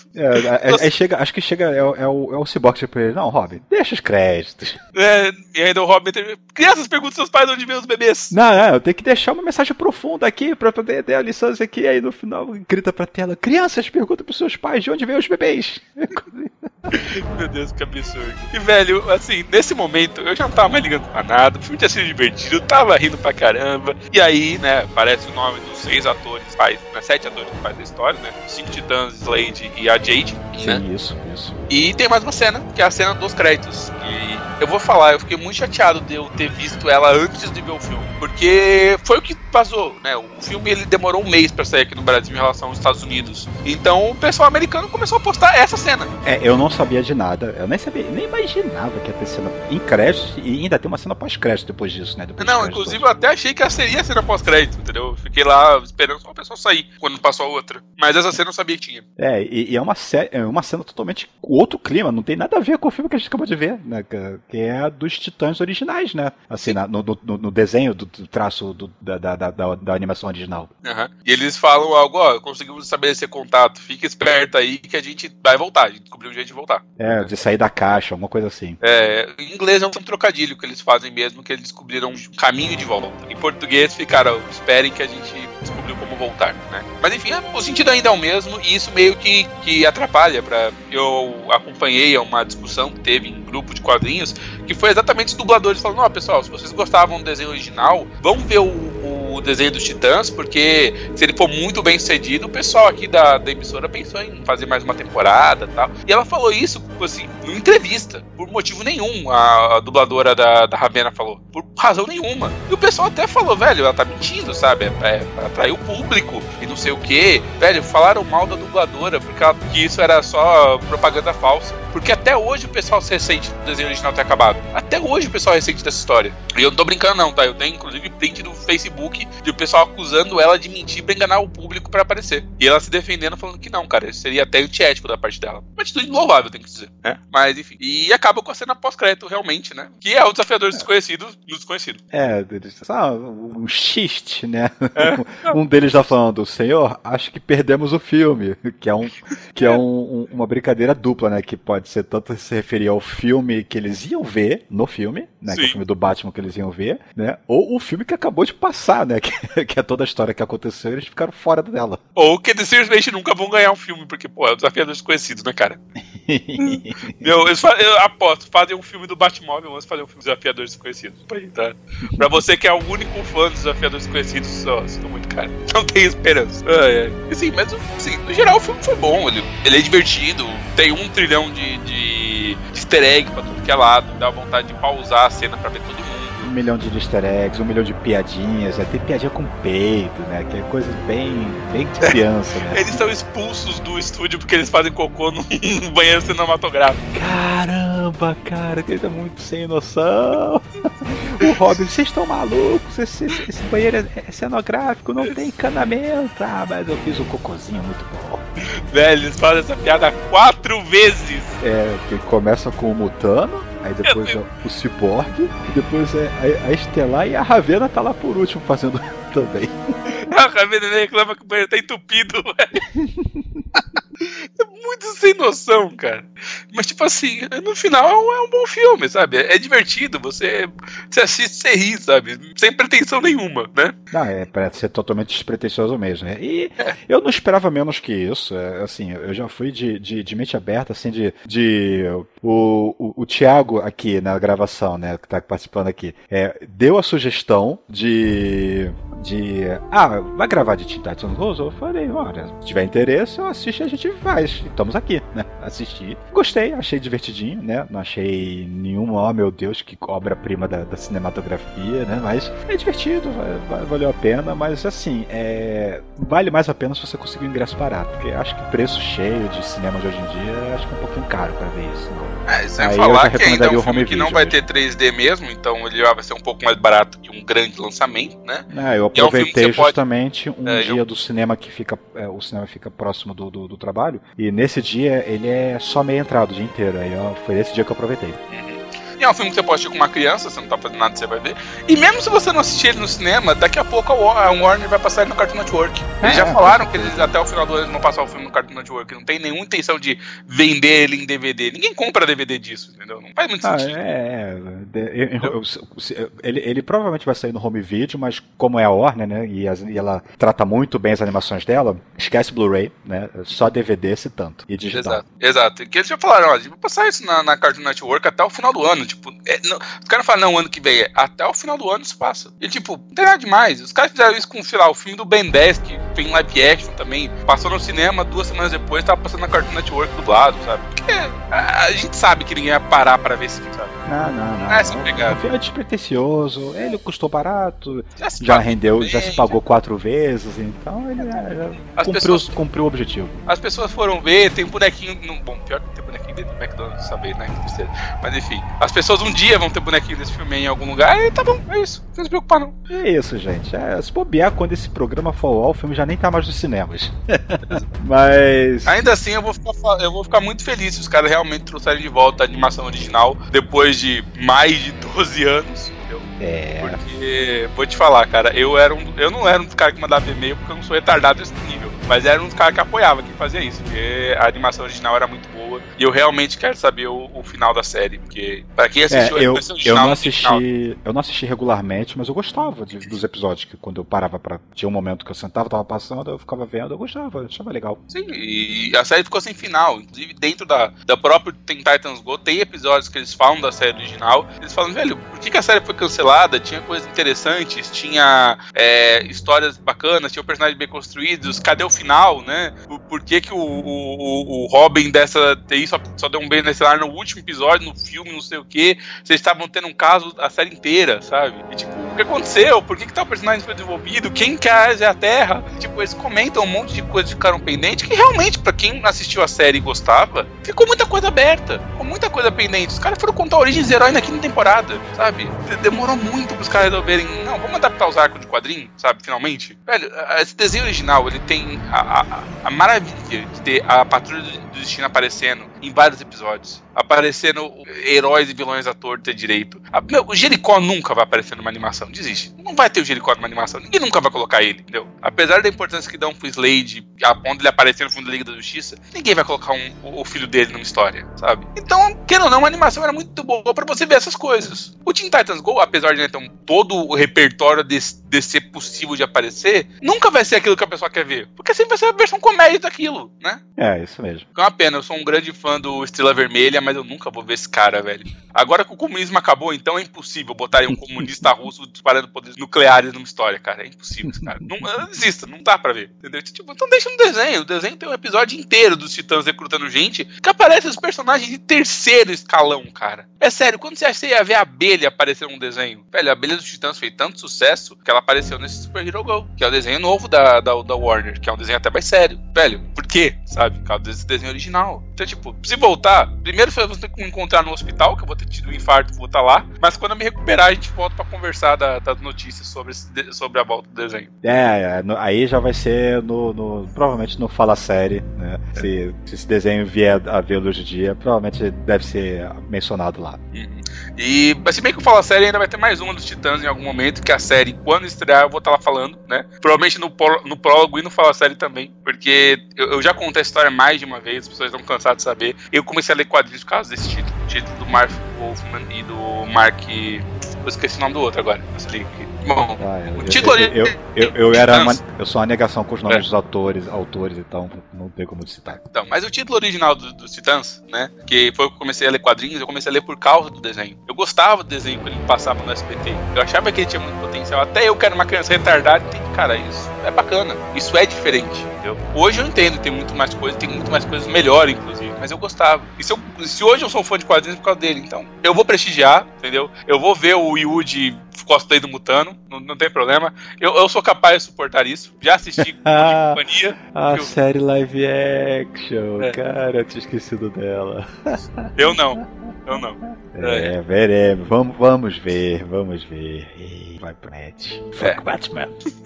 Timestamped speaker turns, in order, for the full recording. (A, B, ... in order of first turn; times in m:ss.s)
0:00.1-0:04.8 A
0:00.4-0:00.9 B
0:05.0-0:08.3 B
0:08.3-0:17.0 A
0:16.9-0:30.8 B
0:30.6-0:31.6 A
0:31.7-0:46.1 B
0:46.2-0:53.1 A
0:52.4-0:59.0 B
0:59.2-1:10.7 A
1:10.8-1:16.9 B
1:17.0-1:18.8 A
1:18.8-2:22.0 B
2:22.1-2:42.0 A
2:25.0-2:25.6 B
2:35.5-2:35.8 B
2:42.2-2:45.8 B
2:46.2-2:47.3 A
2:46.6-3:06.5 B
3:06.4-3:12.9 A
3:12.7-3:17.0 B
3:17.1-3:28.4 A
3:28.9-3:31.6 B
3:31.6-3:39.9 A
3:34.0-3:34.4 B
3:40.1-3:42.8 B
3:42.9-3:43.6 A
3:44.0-3:54.0 B
3:54.1-4:34.6 A
4:32.5-4:40.0 B
4:38.7-4:48.4 A
4:40.7-4:41.0 B
4:48.5-5:04.0 B
4:56.2-4:57.3 A
5:03.6-5:15.2 A
5:14.9-5:34.0 B
5:34.0-5:43.4 A
5:34.7-5:35.4 B
5:38.2-5:39.6 B
5:41.9-5:42.5 B
5:43.5-5:52.8 B
5:52.9-5:59.1 A
5:58.9-6:06.3 B
6:06.4-6:07.0 A
6:06.8-6:20.6 B
6:19.1-6:28.0 A
6:28.1-7:43.6 B
7:43.8-7:44.5 A
7:44.6-8:24.3 B
8:24.4-8:33.4 A
8:33.5-8:55.0 B
8:52.8-8:58.8 A
8:58.9-9:27.3 B
9:25.8-9:26.4 A
9:26.9-9:38.7 A
9:31.8-9:33.7 B